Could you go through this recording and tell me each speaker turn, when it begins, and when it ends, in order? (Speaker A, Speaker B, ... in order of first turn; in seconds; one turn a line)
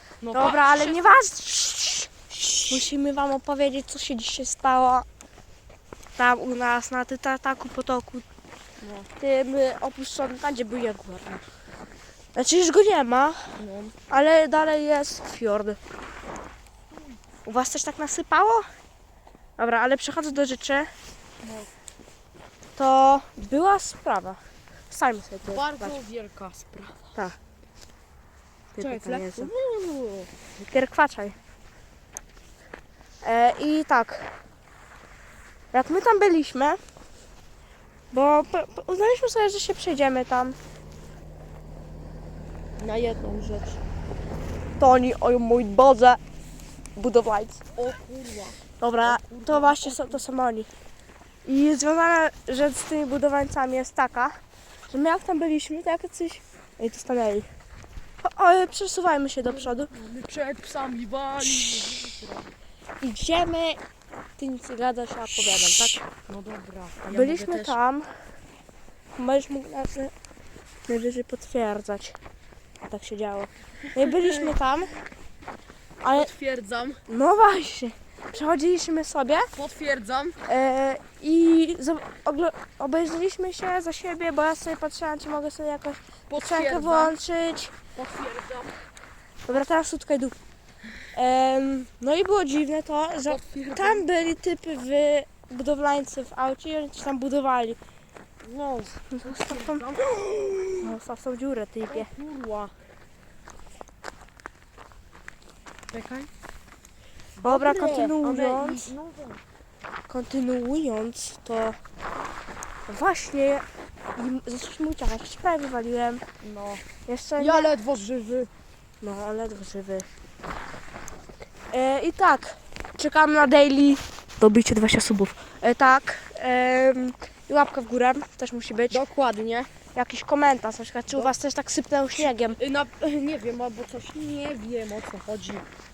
Speaker A: 0.2-1.2
Speaker B: 0.3-2.1
Speaker A: 2.3-2.9
Speaker B: 2.7-5.0
Speaker B: 6.2-8.2
Speaker A: 8.8-9.1
Speaker B: 9.2-11.4
Speaker B: 12.3-15.8
Speaker A: 13.6-13.9
Speaker B: 17.4-18.7
Speaker B: 19.6-20.9
Speaker A: 21.4-21.7
Speaker B: 22.8-26.0
Speaker A: 25.4-27.1
Speaker B: 28.7-29.5
Speaker A: 28.8-30.3
Speaker B: 30.6-31.4
Speaker B: 33.2-34.4
Speaker B: 35.7-36.8
Speaker B: 38.1-40.6
Speaker A: 42.8-43.8
Speaker B: 44.8-45.1
Speaker A: 45.0-45.9
Speaker B: 45.7-46.2
Speaker B: 47.0-47.6
Speaker A: 47.8-50.2
Speaker B: 48.8-50.7
Speaker B: 51.4-57.5
Speaker B: 58.2-59.9
Speaker A: 59.4-62.5
Speaker B: 63.0-63.8
Speaker B: 64.4-66.0
Speaker A: 66.2-67.8
Speaker B: 67.1-68.2
Speaker B: 69.2-70.1
Speaker B: 70.9-72.2
Speaker B: 72.9-75.0
Speaker A: 74.1-74.5
Speaker A: 76.0-77.0
Speaker B: 76.0-76.3
Speaker B: 77.1-79.5
Speaker A: 79.5-80.4
Speaker B: 80.4-87.7
Speaker A: 86.3-87.2
Speaker A: 88.0-88.8
Speaker B: 89.5-90.3
Speaker B: 91.1-97.8
Speaker A: 93.2-94.0
Speaker A: 98.4-100.9
Speaker B: 99.1-99.9
Speaker B: 100.8-102.1
Speaker A: 101.9-102.7
Speaker A: 105.9-106.3
Speaker A: 107.4-109.4
Speaker B: 107.4-108.9
Speaker B: 110.1-111.8
Speaker B: 112.9-113.6
Speaker B: 114.1-116.2
Speaker A: 116.4-116.8
Speaker B: 117.0-117.7
Speaker A: 117.4-118.5
Speaker B: 119.0-120.1
Speaker B: 121.7-129.0
Speaker A: 128.9-129.7
Speaker B: 129.9-132.6
Speaker A: 132.2-135.6